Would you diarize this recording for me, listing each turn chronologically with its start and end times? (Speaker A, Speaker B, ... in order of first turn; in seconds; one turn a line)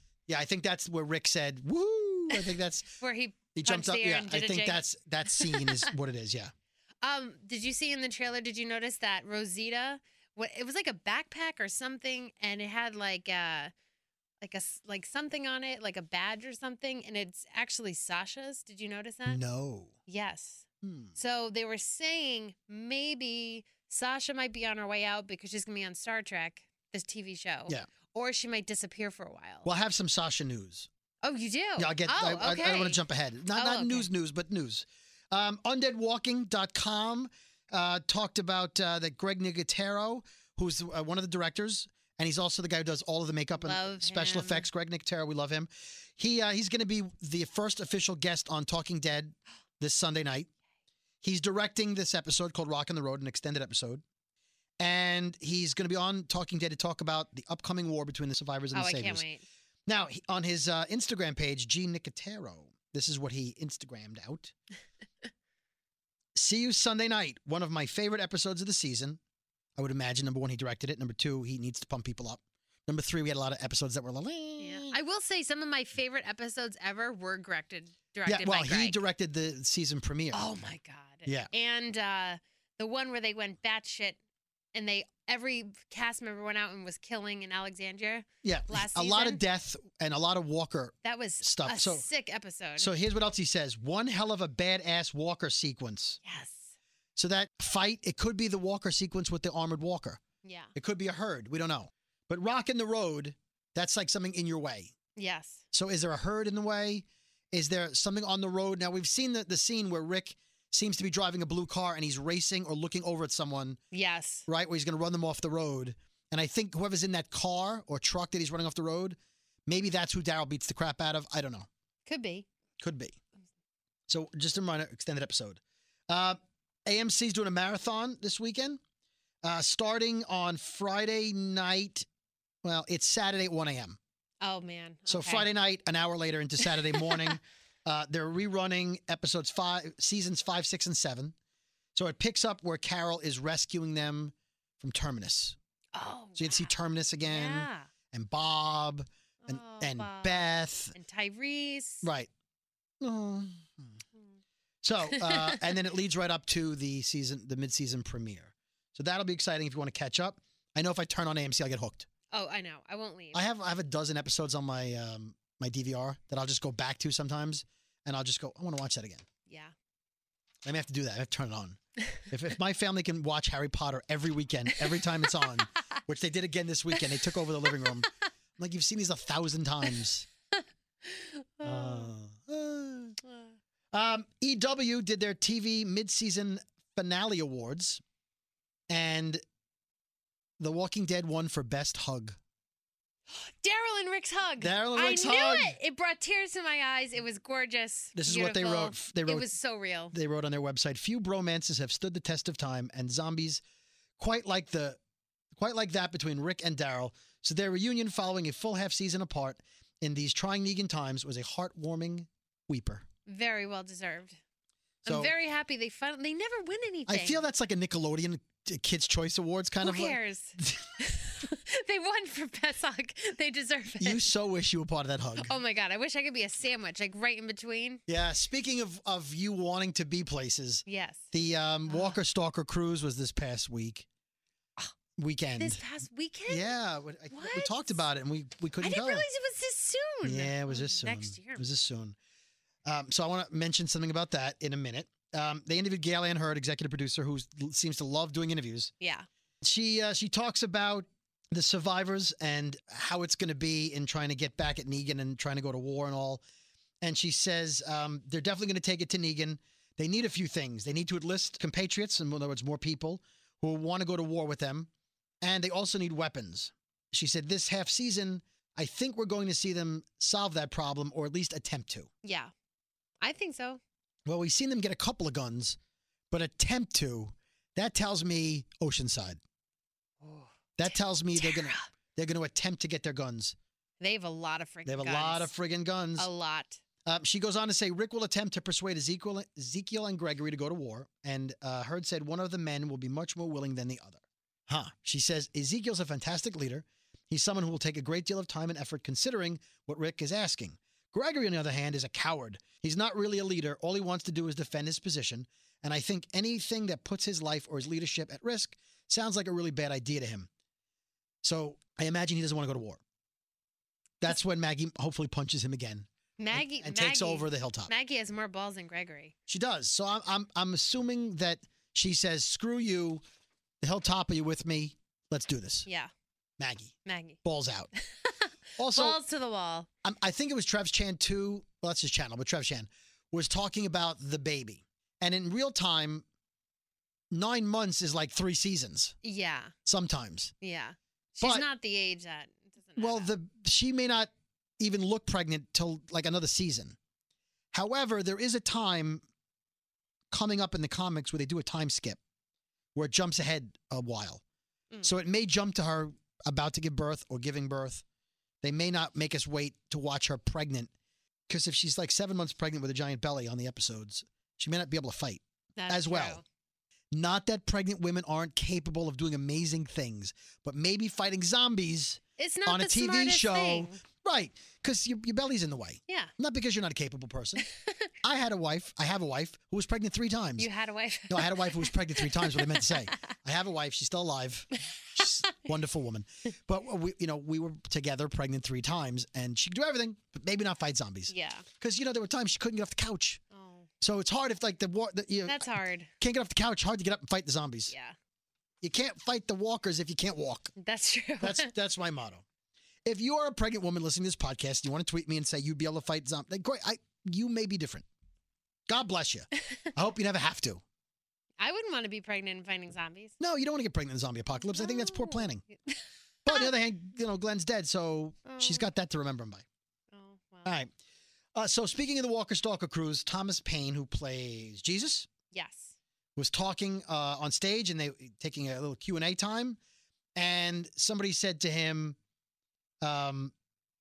Speaker A: 0.3-3.0
Speaker B: 3.0-5.9
Speaker A: 3.5-6.5
Speaker B: 7.0-13.7
Speaker B: 14.4-19.4
Speaker A: 19.3-19.9
Speaker B: 20.1-29.7
Speaker A: 20.8-21.1
Speaker A: 29.6-30.9
Speaker B: 31.2-33.0
Speaker A: 31.8-50.5
Speaker B: 33.5-34.1
Speaker B: 43.6-44.6
Speaker A: 51.2-54.0
Speaker A: 54.8-59.2
Speaker B: 58.7-59.4
Speaker A: 59.9-64.5
Speaker A: 66.3-69.2
Speaker A: 69.8-74.9
Speaker B: 74.6-79.0
Speaker A: 78.2-80.5
Speaker B: 80.3-84.2
Speaker B: 84.7-89.4
Speaker A: 88.4-92.0
Speaker B: 91.0-92.9
Speaker A: 92.8-96.2
Speaker B: 96.2-96.7
Speaker A: 97.2-100.2
Speaker B: 100.4-100.7
Speaker A: 100.7-104.9
Speaker B: 105.2-105.6
Speaker A: 105.7-113.8
Speaker B: 113.9-114.5
Speaker A: 114.5-119.2
Speaker A: 119.7-121.7
Speaker B: 122.1-122.5
Speaker A: 122.8-123.2
Speaker A: 124.1-128.8
Speaker A: 129.4-132.1
Speaker A: 132.6-134.0
Speaker B: 134.4-135.5
Speaker A: 135.1-141.3
Speaker B: 136.6-137.3
Speaker A: 141.9-145.6
Speaker B: 145.9-146.7
Speaker A: 146.4-150.9
Speaker B: 147.2-147.9
Speaker B: 149.4-152.1
Speaker A: 152.0-152.3
Speaker A: 153.0-153.9
Speaker A: 154.8-162.1
Speaker B: 155.1-155.7
Speaker B: 162.3-163.4
Speaker A: 163.3-169.2
Speaker B: 169.5-169.7
Speaker A: 170.6-180.2
Speaker B: 181.1-182.1
Speaker A: 181.6-183.2
Speaker A: 183.9-188.0
Speaker A: 188.9-189.4
Speaker A: 190.6-192.4
Speaker B: 193.3-200.1
Speaker A: 194.6-195.7
Speaker A: 198.1-199.5
Speaker A: 200.1-203.6
Speaker A: 204.2-205.0
Speaker A: 205.6-213.1
Speaker B: 213.2-214.4
Speaker A: 215.1-215.3
Speaker B: 215.1-217.4
Speaker A: 217.1-220.9
Speaker B: 219.8-224.2
Speaker A: 224.0-225.5
Speaker B: 225.4-228.0
Speaker A: 228.1-234.1
Speaker B: 230.9-231.3
Speaker B: 231.9-232.2
Speaker A: 235.2-235.8
Speaker B: 235.6-236.7
Speaker A: 236.5-239.2
Speaker B: 237.3-238.0
Speaker B: 238.8-241.7
Speaker A: 240.2-242.2
Speaker A: 242.8-248.9
Speaker B: 249.0-249.2
Speaker A: 249.6-256.4
Speaker A: 257.0-264.9
Speaker A: 265.4-272.1
Speaker B: 272.2-272.5
Speaker B: 273.2-273.8
Speaker A: 274.2-275.8
Speaker A: 276.3-279.4
Speaker B: 280.2-281.9
Speaker A: 280.8-283.6
Speaker B: 284.0-285.5
Speaker A: 284.9-286.3
Speaker B: 286.2-286.8
Speaker A: 287.1-310.5
Speaker A: 311.4-313.0
Speaker A: 314.2-317.9
Speaker B: 316.4-319.3
Speaker A: 319.5-323.2
Speaker A: 323.8-325.9
Speaker B: 325.9-326.1
Speaker A: 326.6-327.9
Speaker B: 327.1-327.4
Speaker B: 328.0-329.9
Speaker A: 328.8-329.2
Speaker A: 330.0-336.2
Speaker A: 337.3-339.1
Speaker B: 339.2-339.7
Speaker A: 339.9-340.5
Speaker B: 340.6-343.3
Speaker A: 343.0-347.0
Speaker A: 347.7-349.2
Speaker A: 350.3-352.2
Speaker A: 352.9-354.4
Speaker A: 355.0-358.0
Speaker A: 358.6-360.9
Speaker A: 361.5-366.4
Speaker B: 365.8-366.4
Speaker A: 367.1-377.7
Speaker B: 372.4-374.0
Speaker B: 377.8-378.1
Speaker A: 378.2-380.7
Speaker B: 380.6-383.3
Speaker A: 381.3-393.4
Speaker B: 385.2-385.5
Speaker B: 391.3-391.6
Speaker B: 393.5-393.9
Speaker A: 394.0-395.7
Speaker B: 395.4-396.1
Speaker A: 396.2-397.9
Speaker B: 397.9-398.1
Speaker A: 398.8-400.7
Speaker B: 400.8-401.7
Speaker A: 401.4-402.4
Speaker A: 403.1-408.1
Speaker A: 408.9-410.8
Speaker B: 411.6-413.3
Speaker A: 413.4-415.6
Speaker B: 414.7-416.7
Speaker A: 416.4-419.6
Speaker B: 418.4-418.9
Speaker B: 420.1-420.7
Speaker A: 420.6-420.9
Speaker A: 421.6-425.3
Speaker B: 425.5-425.9
Speaker A: 426.4-429.8
Speaker A: 430.4-432.2
Speaker A: 433.0-433.5